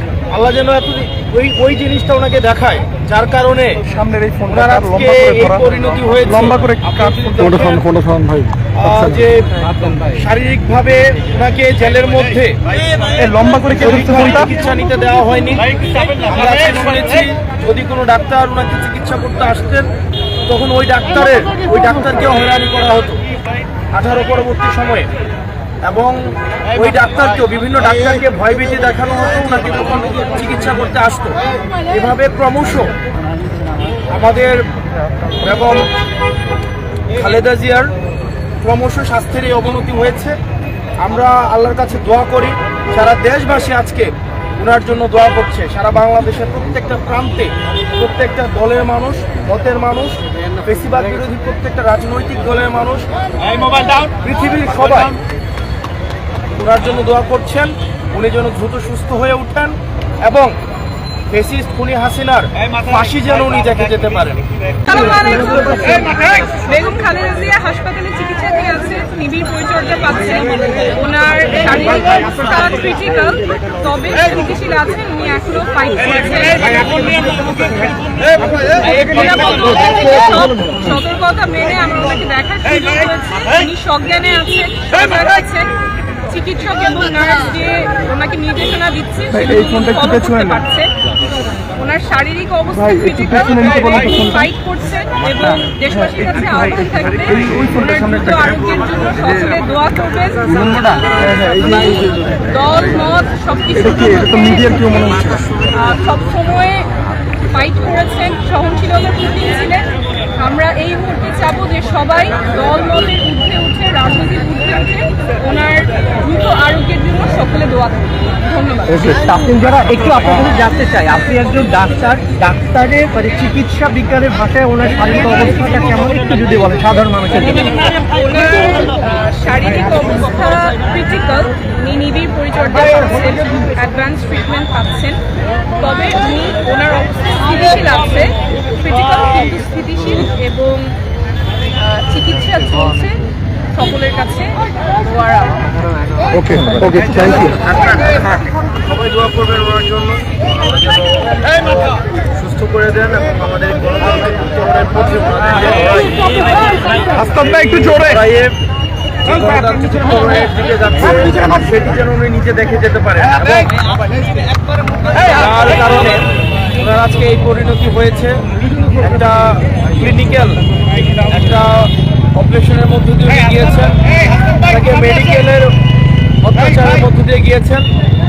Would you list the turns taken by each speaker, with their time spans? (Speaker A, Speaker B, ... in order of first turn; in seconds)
Speaker A: 0.3-3.8, 4.5-8.0, 8.7-9.5, 10.0-12.6, 13.7-19.9, 20.4-23.2, 23.9-25.1, 25.8-32.9, 34.1-34.6, 35.4-35.9, 37.1-37.9, 38.6-40.4, 41.0-53.1, 54.0-55.1, 56.5-60.5, 61.3-66.0, 147.2-156.3, 157.1-158.5, 159.2-163.8, 165.1-168.4, 168.9-170.6, 171.2-175.7, 176.4-177.8
Speaker B: 3.9-5.7, 6.3-8.5, 13.2-14.5, 89.3-90.6, 92.7-94.5, 95.9-96.3, 97.3-98.6, 100.5-102.5, 103.7-105.6, 146.3-147.4
Speaker C: 64.9-77.5, 78.6-85.7, 86.2-90.9, 91.7-101.1, 101.6-104.8, 105.7-106.9, 107.4-119.0, 127.9-135.2, 135.8-140.9, 141.8-145.7, 146.8-147.2
Speaker D: 118.9-127.8